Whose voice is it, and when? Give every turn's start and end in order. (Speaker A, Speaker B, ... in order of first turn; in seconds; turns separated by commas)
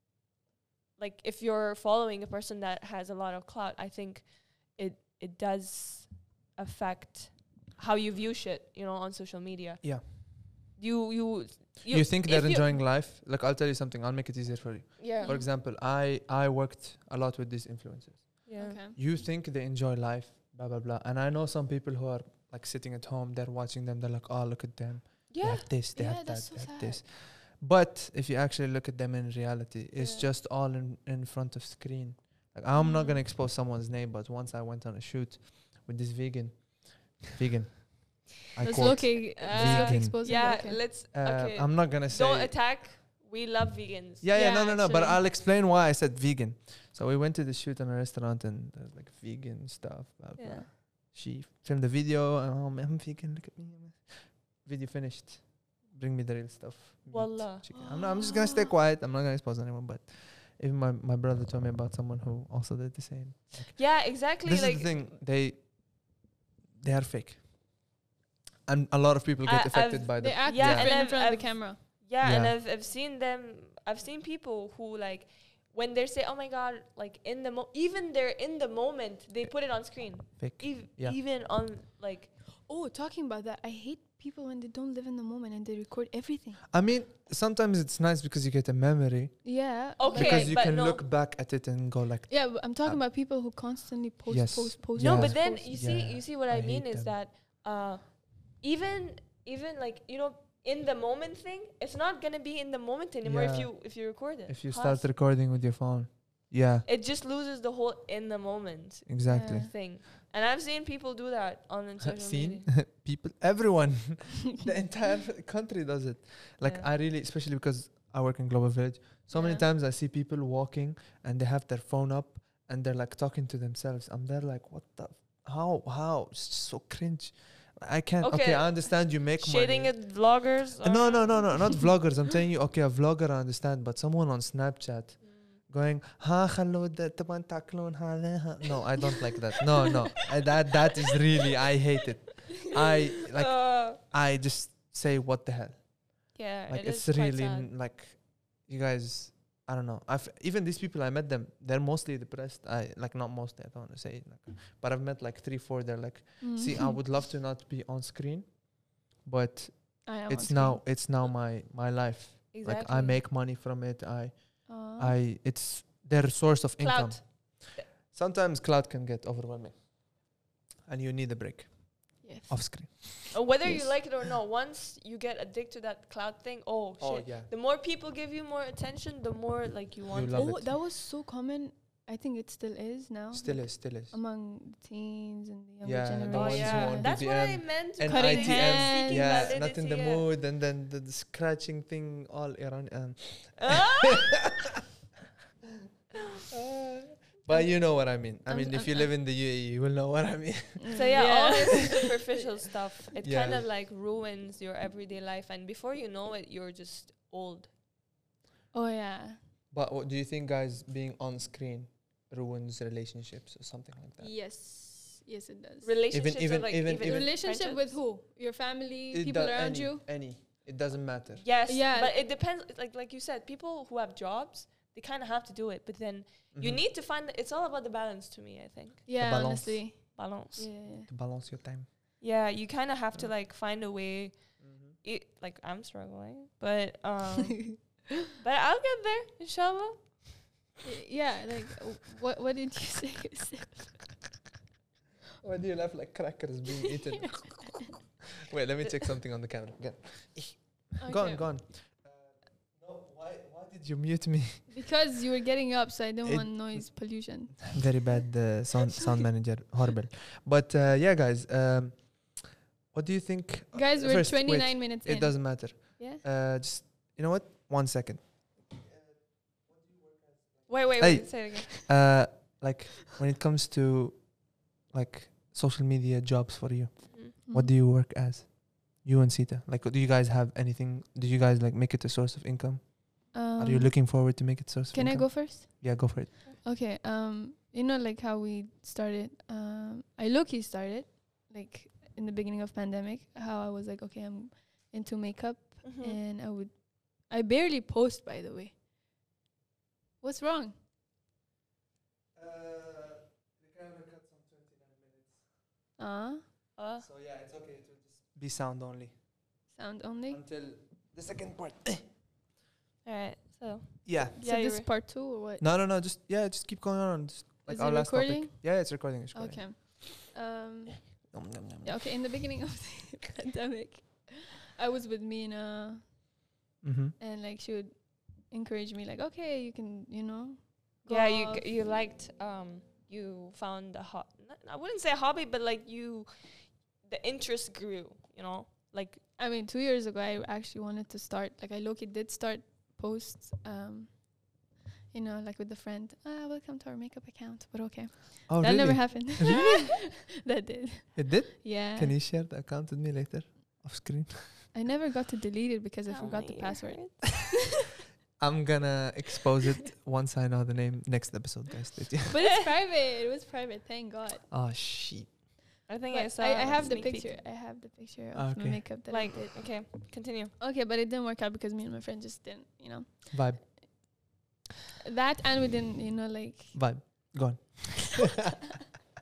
Speaker A: 1.0-12.8, Speaker B: 11.9-40.4, Speaker A: 15.0-15.3, Speaker C: 15.2-15.5, Speaker A: 18.4-18.8, Speaker C: 18.6-19.0, Speaker A: 25.3-25.7, Speaker C: 25.9-27.0, Speaker C: 30.0-30.2, Speaker C: 32.7-33.2, Speaker C: 38.6-40.8, Speaker A: 38.8-44.4, Speaker B: 41.1-42.6, Speaker B: 44.2-66.2, Speaker C: 44.3-45.2, Speaker A: 50.4-50.7, Speaker A: 57.1-57.7, Speaker C: 57.7-58.7, Speaker A: 63.7-65.1, Speaker B: 66.8-67.7, Speaker B: 68.6-71.0, Speaker A: 69.4-82.3, Speaker C: 70.2-71.8, Speaker B: 72.2-72.6, Speaker B: 80.1-81.2, Speaker C: 82.6-86.6, Speaker B: 86.7-93.0, Speaker C: 89.4-90.5, Speaker A: 90.0-91.0, Speaker C: 92.3-95.7, Speaker B: 94.3-97.2, Speaker A: 95.0-105.1, Speaker B: 103.2-106.8, Speaker A: 106.8-112.7, Speaker B: 109.1-109.7, Speaker C: 109.3-109.7, Speaker B: 112.0-170.2, Speaker A: 116.6-116.9, Speaker C: 119.3-119.6, Speaker A: 128.2-131.8, Speaker A: 135.2-135.6, Speaker A: 143.3-144.0, Speaker A: 146.3-147.7, Speaker C: 156.4-157.0, Speaker C: 160.0-160.8, Speaker A: 162.5-163.2, Speaker C: 164.7-165.2, Speaker A: 166.8-167.8, Speaker B: 170.8-174.0, Speaker C: 172.2-172.9, Speaker A: 173.3-180.5, Speaker B: 177.0-177.5, Speaker B: 180.1-180.8, Speaker C: 180.3-187.2, Speaker B: 183.3-184.1, Speaker B: 185.8-194.5, Speaker A: 186.3-190.2, Speaker C: 188.1-189.5, Speaker A: 193.6-194.3, Speaker B: 196.5-201.0, Speaker C: 197.5-199.1, Speaker C: 200.8-202.2, Speaker A: 200.9-207.7, Speaker B: 203.2-203.7, Speaker C: 208.7-209.4, Speaker B: 209.7-214.3, Speaker C: 214.2-215.9, Speaker A: 215.8-217.9, Speaker B: 216.1-217.3, Speaker C: 217.0-220.0, Speaker B: 219.1-221.5, Speaker A: 221.4-229.1, Speaker C: 221.7-222.2, Speaker B: 226.5-226.8, Speaker C: 229.1-231.1, Speaker B: 229.2-230.0, Speaker A: 230.1-230.7, Speaker B: 230.9-231.9, Speaker A: 232.2-240.3, Speaker B: 234.6-234.9, Speaker C: 240.8-244.1, Speaker B: 245.4-254.7, Speaker C: 251.0-251.5, Speaker C: 254.7-258.0, Speaker B: 256.2-286.3, Speaker C: 263.7-266.2, Speaker A: 270.7-271.7, Speaker C: 277.4-277.7, Speaker C: 283.3-298.8, Speaker A: 295.8-296.2, Speaker C: 300.2-300.7, Speaker B: 302.3-305.4, Speaker C: 306.0-306.4, Speaker A: 306.8-307.1, Speaker B: 307.0-309.2, Speaker C: 309.7-310.4, Speaker B: 310.3-312.1, Speaker A: 313.0-314.9, Speaker B: 314.0-314.3, Speaker C: 314.4-315.6, Speaker B: 315.6-320.0, Speaker C: 317.7-326.1, Speaker B: 321.2-322.1, Speaker B: 326.8-327.1, Speaker C: 327.2-331.7, Speaker A: 331.1-339.2, Speaker C: 339.4-352.2, Speaker B: 348.5-349.7, Speaker A: 349.4-349.7, Speaker B: 351.1-354.7, Speaker C: 354.7-357.4, Speaker A: 356.1-357.4, Speaker B: 358.4-362.3, Speaker C: 362.3-364.4, Speaker A: 362.3-362.7, Speaker B: 364.5-365.3, Speaker A: 365.9-367.3, Speaker C: 366.1-369.5, Speaker B: 368.3-368.8, Speaker A: 369.1-370.5, Speaker C: 370.6-373.8, Speaker B: 373.3-373.6, Speaker C: 375.1-376.8, Speaker B: 376.7-378.4